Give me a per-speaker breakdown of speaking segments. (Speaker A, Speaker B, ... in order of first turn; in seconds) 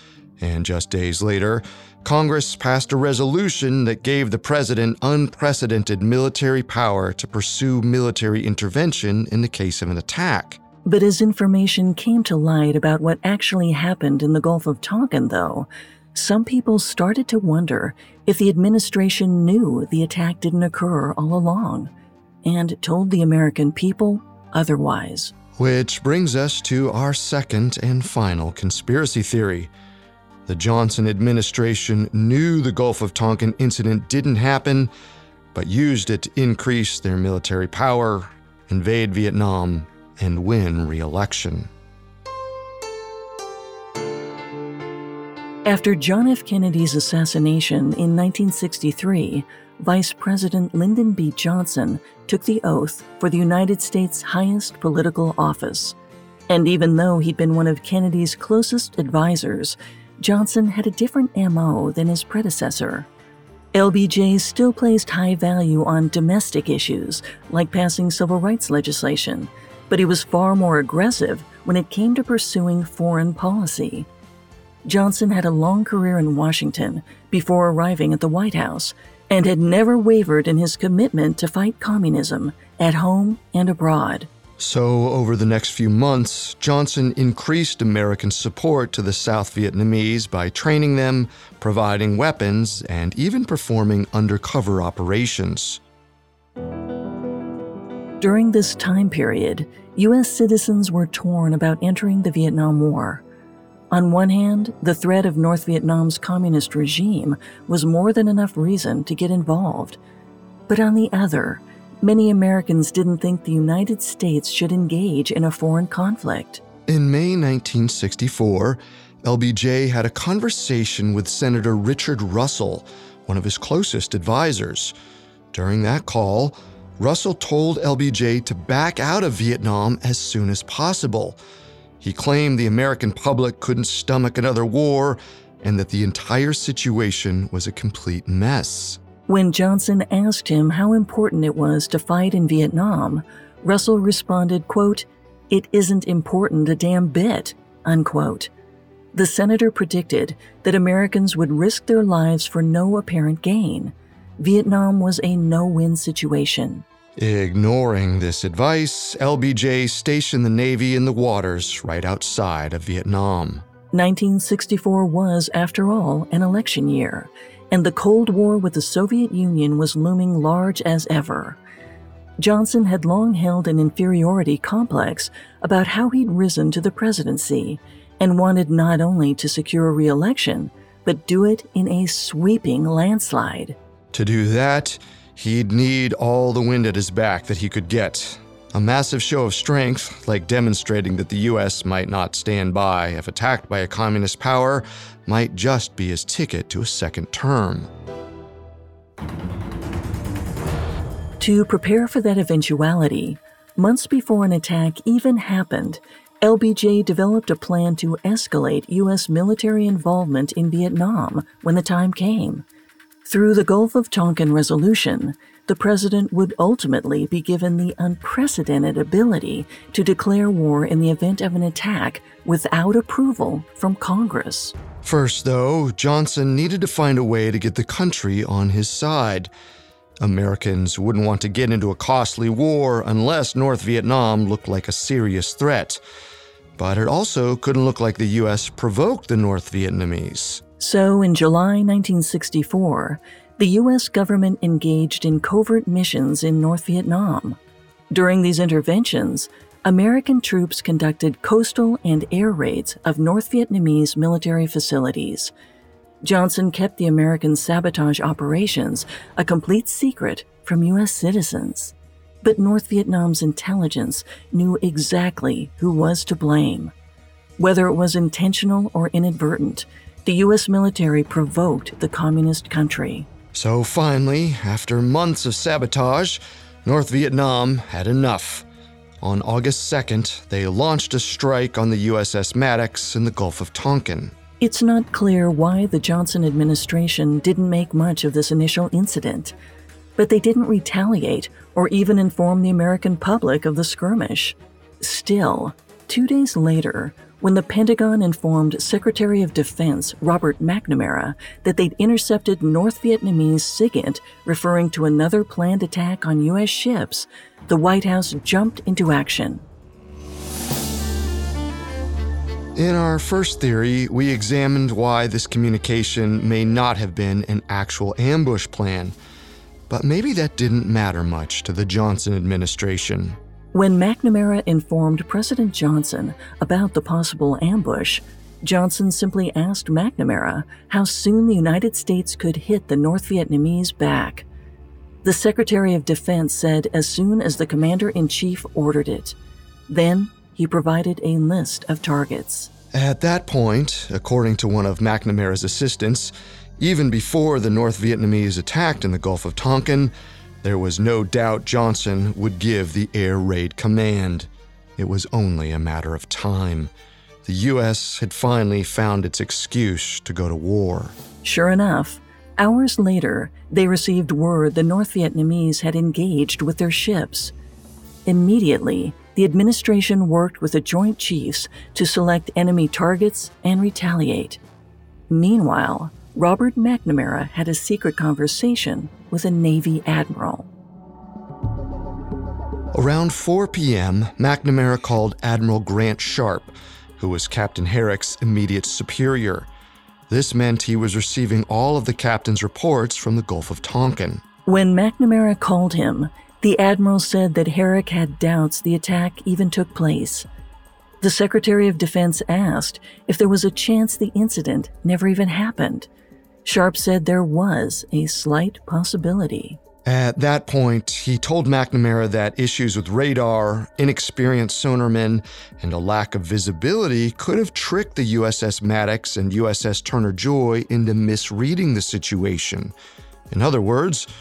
Speaker A: 0.4-10.6, 25.6-29.7, 30.5-34.9, 35.5-41.7, 84.6-95.8, 116.9-124.9, 125.5-131.4, 132.0-139.0, 157.2-163.6, 184.1-197.9, 225.0-229.5, 230.2-236.0, 236.8-240.6, 273.5-278.6, 279.2-284.4, 312.7-319.1, 319.9-323.4, 342.9-356.9, 357.4-361.1, 382.9-389.7, 390.3-394.4, 410.1-422.9, 423.5-424.3
Speaker B: 10.8-21.9, 22.4-25.3, 45.6-56.0, 56.5-63.1, 63.7-74.1, 74.8-84.3, 98.2-103.2, 103.9-110.0, 110.7-116.6, 139.3-148.5, 149.1-156.8, 163.9-171.6, 172.4-183.8, 201.4-212.6, 213.2-224.7, 240.8-247.6, 248.1-255.5, 256.2-266.9, 267.6-273.3, 284.6-289.6, 290.2-309.6, 323.7-334.4, 335.2-339.4, 339.9-342.7, 361.4-367.5, 368.2-374.6, 375.3-380.7, 394.6-400.4, 401.2-406.1, 406.6-409.8